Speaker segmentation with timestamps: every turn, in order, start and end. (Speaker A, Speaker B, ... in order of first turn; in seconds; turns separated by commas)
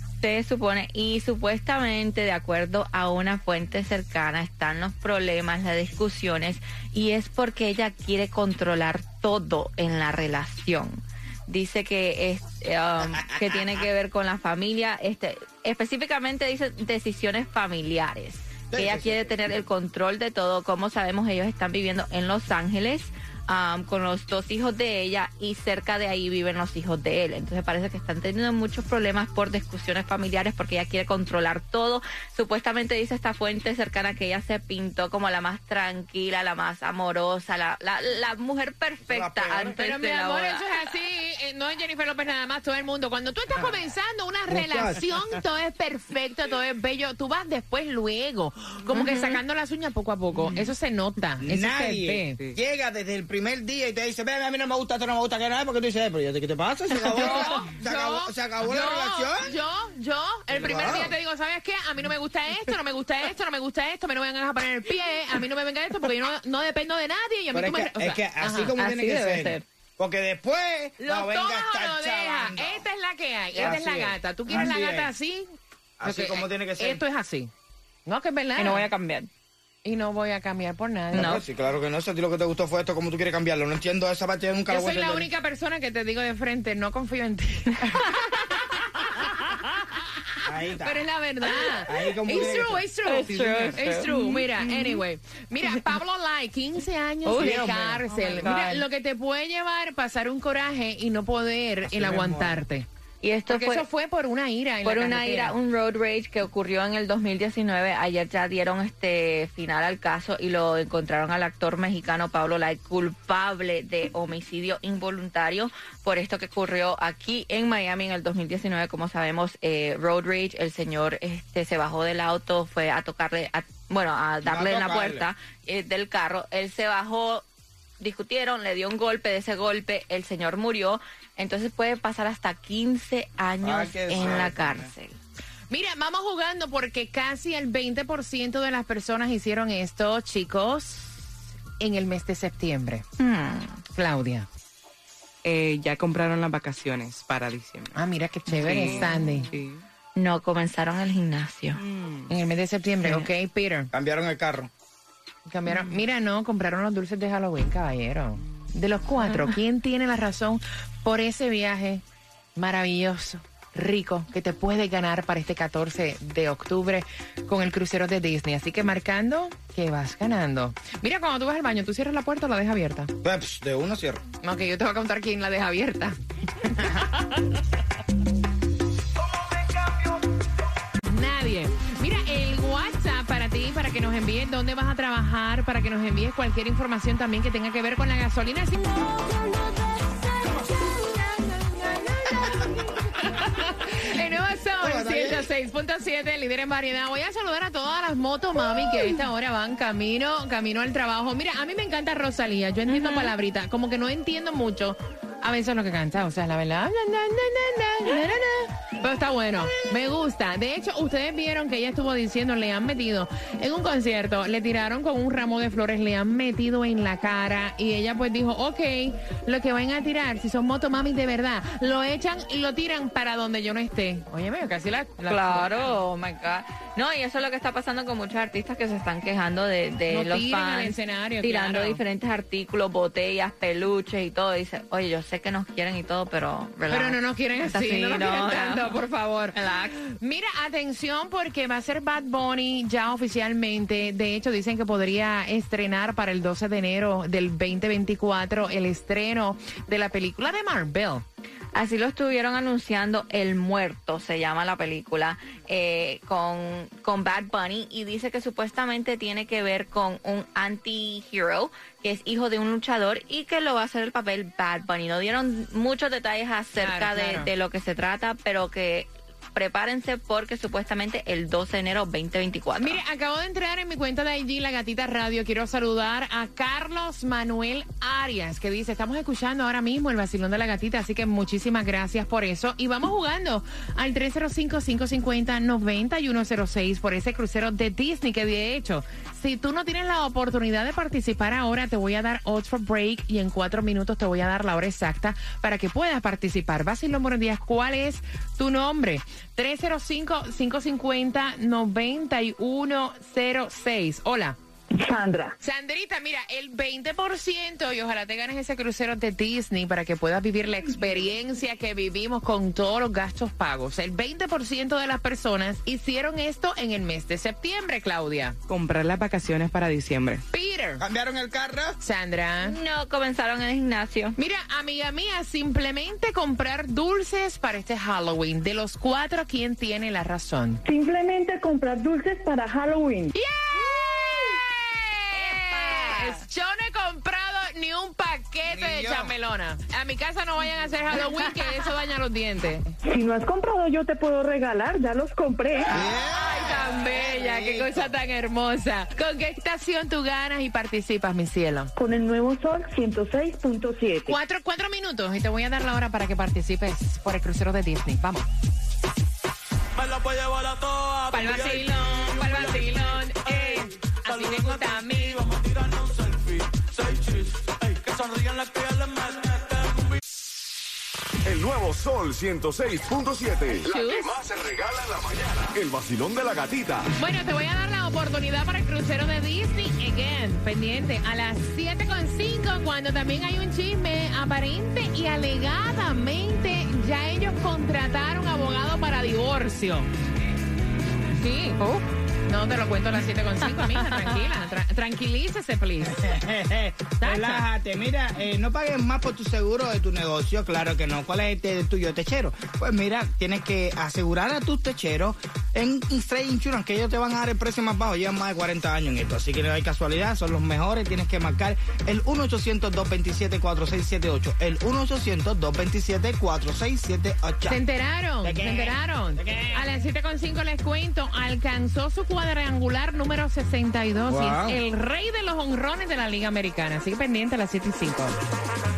Speaker A: 0.2-40.7, Speaker B: 13.0-13.9, Speaker B: 18.7-19.4, Speaker B: 39.1-39.8, Speaker C: 39.8-52.4, Speaker B: 44.5-45.4, Speaker A: 48.9-49.4, Speaker B: 51.4-59.5, Speaker A: 57.0-57.5, Speaker C: 57.1-68.7, Speaker B: 60.6-61.1, Speaker B: 67.5-72.8, Speaker A: 68.8-69.7, Speaker C: 71.0-77.5, Speaker B: 73.6-75.1, Speaker B: 76.0-77.0, Speaker C: 78.1-78.9, Speaker A: 78.6-79.3, Speaker C: 79.8-81.4, Speaker A: 81.1-81.4, Speaker B: 81.1-85.3, Speaker C: 84.7-89.3, Speaker A: 87.9-89.6, Speaker B: 90.5-91.0, Speaker C: 90.8-102.9, Speaker B: 91.9-92.8, Speaker A: 93.1-95.0, Speaker D: 93.3-93.8, Speaker A: 97.2-98.8, Speaker B: 97.3-98.0, Speaker B: 101.8-102.6, Speaker A: 103.2-103.8, Speaker C: 103.5-105.5, Speaker A: 104.8-127.5, Speaker B: 124.5-125.3, Speaker A: 128.0-135.2, Speaker B: 133.6-134.9, Speaker C: 135.7-141.3, Speaker C: 141.8-143.1, Speaker A: 143.2-143.8, Speaker C: 143.9-144.5, Speaker D: 145.4-148.0, Speaker C: 147.9-149.5, Speaker D: 148.5-149.8, Speaker A: 148.7-149.2, Speaker A: 150.2-151.8, Speaker D: 151.8-152.3, Speaker C: 152.3-153.9, Speaker B: 153.9-154.7, Speaker C: 155.5-162.0, Speaker C: 162.6-173.1, Speaker B: 173.2-174.2, Speaker C: 174.4-177.1, Speaker C: 181.0-189.2, Speaker C: 190.6-226.0, Speaker B: 194.8-195.5, Speaker A: 202.9-203.3, Speaker A: 225.2-239.9, Speaker C: 230.1-232.0, Speaker C: 236.9-239.6, Speaker C: 240.2-251.2, Speaker A: 251.8-273.0, Speaker C: 266.8-267.5, Speaker C: 272.8-304.6, Speaker E: 305.0-305.6, Speaker C: 305.6-318.6, Speaker D: 318.7-320.4, Speaker C: 320.5-321.0, Speaker B: 321.0-322.0, Speaker C: 322.0-322.8, Speaker A: 322.6-324.4, Speaker C: 324.4-330.8, Speaker E: 330.9-333.3, Speaker C: 333.4-343.0, Speaker A: 335.3-336.4, Speaker B: 338.7-339.3, Speaker E: 343.1-345.9, Speaker B: 345.9-348.1, Speaker C: 346.2-351.9, Speaker E: 352.0-354.4, Speaker C: 354.3-358.5, Speaker F: 360.0-362.6, Speaker C: 361.3-365.5, Speaker F: 364.4-369.6, Speaker G: 371.5-377.1, Speaker C: 373.8-374.4, Speaker C: 377.2-390.1, Speaker C: 391.3-391.8, Speaker A: 391.8-392.1, Speaker C: 392.5-396.2, Speaker A: 393.7-394.4, Speaker B: 396.0-417.8, Speaker C: 397.2-397.7, Speaker C: 417.7-428.4, Speaker B: 418.4-419.9, Speaker B: 424.3-424.8